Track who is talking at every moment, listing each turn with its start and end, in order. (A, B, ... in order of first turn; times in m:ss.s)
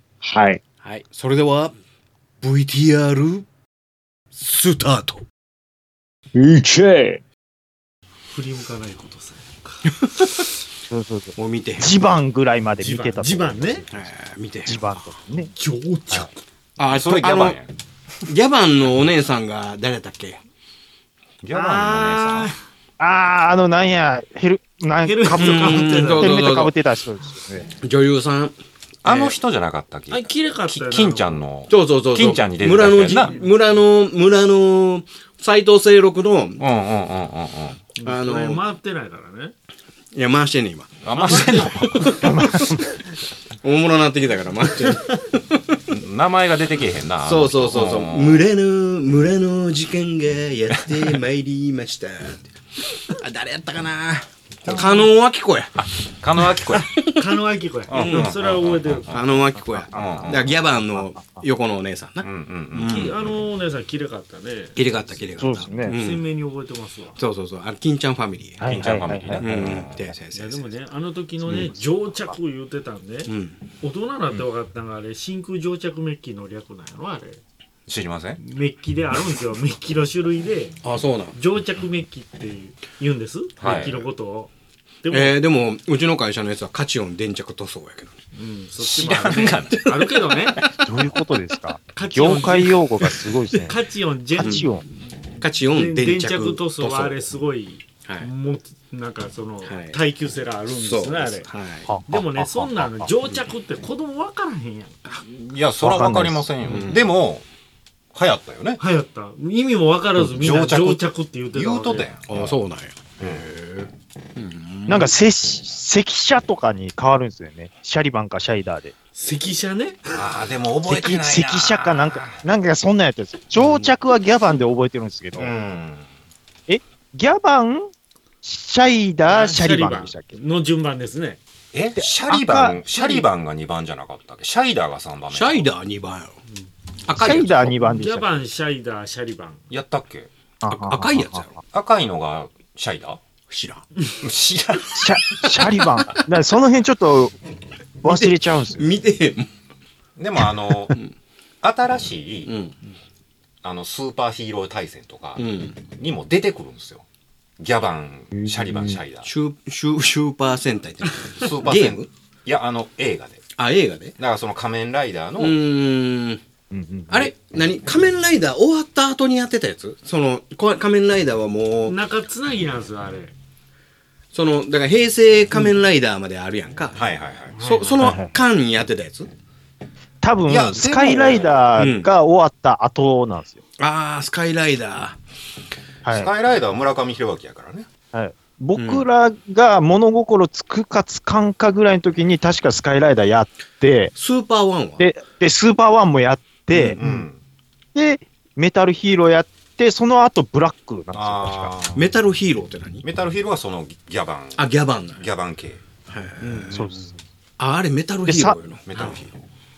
0:00.2-0:00.6 A
0:00.8-0:01.8 B
0:02.4-0:03.5 B
0:04.3-0:05.2 B
0:06.4-0:07.2 A
0:08.3-0:09.8 A
0:10.0-0:10.3 B
0:10.9-0:14.1 C
0:11.4-0:11.9 B
0:12.8-0:13.8 A
0:13.9-0:14.9 B
0:14.7-0:15.5 C
0:15.5-0:16.4 A
0:16.8-0:17.6 B
0:16.9-0:17.7 D
0:18.2-0:20.4 B
0:21.4-0:22.5 D
0:21.5-0:22.6 A
0:23.0-0:27.7 C
0:25.0-0:26.4 A
0:25.3-0:26.7 B
0:27.8-0:29.4 B
0:29.0-0:33.4 D
0:30.1-0:31.4 A
0:31.7-0:36.6 B
0:36.6-0:37.8 D
0:38.0-0:39.5 A
0:38.0-0:38.6 B
0:40.1-0:42.7 B
0:41.0-0:42.3 D
0:41.1-0:42.3 A
0:42.2-0:42.8 C
0:43.6-0:45.8 B
0:45.9-0:48.4 D
0:47.2-0:52.5 B
0:53.1-0:55.8 B
0:54.6-0:55.1 D
0:55.8-0:57.0 D
0:57.2-0:59.1 A
0:57.9-0:59.4 D
0:57.9-0:58.3 B
0:59.1-1:03.2 B
0:59.7-1:01.4 C
0:59.9-1:00.6 D
1:02.2-1:03.2 D
1:02.8-1:05.2 A
1:04.8-1:06.2 B
1:05.4-1:06.0 C
1:05.8-1:07.2 A
1:07.2-1:10.7 B
1:08.6-1:09.8 C
1:08.7-1:10.1 D
1:10.3-1:13.3 A
1:11.4-1:11.7 B
1:13.3-1:13.6 B
1:13.8-1:17.4 A
1:17.9-1:18.4 D
1:18.4-1:20.8 A
1:20.8-1:21.4 B
1:21.3-1:24.5 A
1:23.6-1:24.0 D
1:23.6-1:23.9 B
1:25.0-1:25.4 A
1:25.1-1:28.2 B
1:28.4-1:30.6 A
1:28.8-1:29.8 D
1:29.7-1:30.7 B
1:30.8-1:33.8 C
1:32.0-1:32.8 A
1:33.6-1:34.7 A
1:34.4-1:34.8 C
1:34.4-1:34.7 B
1:35.4-1:37.2 B
1:35.7-1:41.5 A
1:39.7-1:40.0 B
1:40.8-1:41.9 B
1:41.9-1:43.1 C
1:42.1-1:45.0 A
1:45.2-1:47.4 D
1:45.8-1:46.5 C
1:46.6-1:47.1 B
1:48.1-1:48.8 D
1:48.8-1:52.1 A
1:50.2-1:52.6 D
1:52.3-1:55.1 B
1:53.2-1:53.5 D
1:54.9-1:58.9 C
1:59.2-2:00.2 A
2:00.1-2:02.4 D
2:00.8-2:05.5 C
2:05.4-2:06.1 D
2:06.7-2:07.9 C
2:08.4-2:10.4 C
2:09.3-2:11.4 A
2:11.7-2:15.7 D
2:12.0-2:13.1 C
2:12.9-2:13.2 A
2:15.3-2:16.4 B
2:17.0-2:17.8 B
2:17.1-2:18.3 C
2:17.8-2:19.6 A
2:19.7-2:20.3 D
2:20.6-2:21.4 C
2:20.7-2:21.6 B
2:21.7-2:23.2 D
2:23.5-2:23.9 B
2:24.2-2:25.5 D
2:24.9-2:27.4 C
2:28.0-2:28.9 C
2:28.0-2:29.5 B
2:30.2-2:31.0 D
2:31.6-2:32.5 D
2:32.5-2:32.8 B
2:33.6-2:37.0 D
2:35.4-2:35.8 B
2:37.6-2:39.3 D
2:38.4-2:39.0 C
2:39.2-2:42.1 B
2:41.4-2:43.4 D
2:43.6-2:44.2 B
2:44.2-2:45.6 D
2:45.4-2:46.4 B
2:46.7-2:47.3 C
2:47.1-2:52.0 B
2:51.9-2:53.3 A
2:54.3-2:57.0 B
2:57.0-2:57.6 D
2:57.5-2:58.0 A
2:57.6-2:59.3 B
2:58.0-2:58.3 C
3:00.2-3:03.6 C
3:00.5-3:01.6 D
3:01.8-3:02.1 B
3:03.8-3:05.2 B
3:06.0-3:06.3 C
3:06.1-3:07.9 D
3:08.1-3:14.1 C
3:08.8-3:09.1 B
3:14.2-3:15.1 B
3:15.0-3:17.2 C
3:16.9-3:17.4 D
3:18.0-3:21.7 C
3:21.1-3:22.2 D
3:21.9-3:23.0 B
3:23.0-3:25.8 D
3:24.6-3:25.3 B
3:26.1-3:26.9 B
3:26.4-3:27.1 A
3:26.7-3:27.1 C
3:27.6-3:29.3 B
3:28.3-3:28.6 C
3:28.9-3:29.4 D
3:28.9-3:29.2 A